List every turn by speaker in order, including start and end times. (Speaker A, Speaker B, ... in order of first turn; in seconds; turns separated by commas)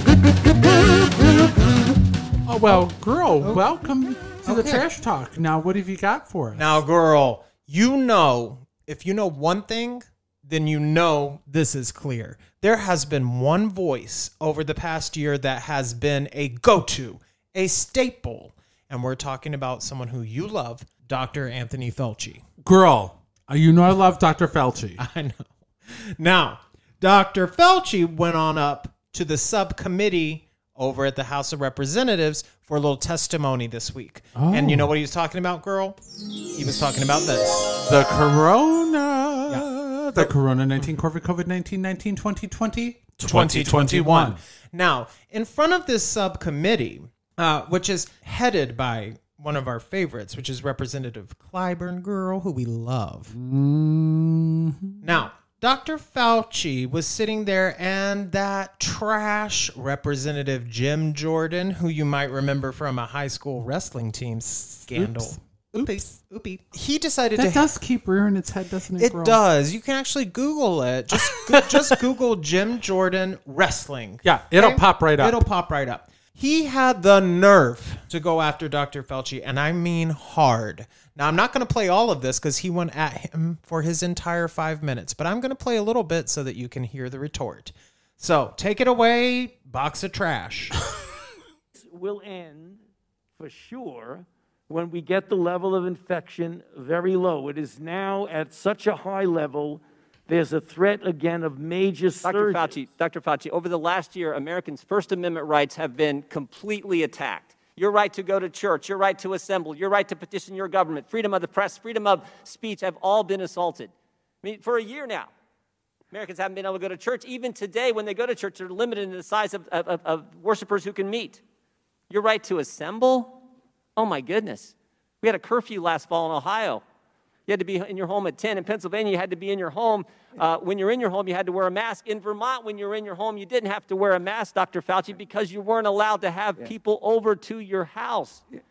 Speaker A: 2.5-6.8, Speaker B: 4.5-4.8, Speaker B: 6.6-22.4, Speaker A: 22.6-25.0, Speaker B: 25.0-36.0, Speaker A: 34.4-34.9, Speaker B: 36.5-37.8, Speaker A: 37.8-44.4, Speaker B: 39.5-40.3, Speaker B: 43.2-53.3, Speaker A: 53.3-55.2, Speaker B: 55.0-67.7, Speaker A: 64.9-66.0, Speaker A: 67.4-69.4, Speaker B: 69.0-90.8, Speaker A: 71.4-71.9, Speaker A: 74.2-75.4, Speaker C: 91.9-92.8, Speaker C: 93.4-102.8, Speaker D: 102.2-113.9, Speaker D: 114.4-115.3, Speaker D: 116.1-121.4, Speaker D: 122.1-123.4, Speaker D: 124.0-126.8, Speaker D: 127.5-138.4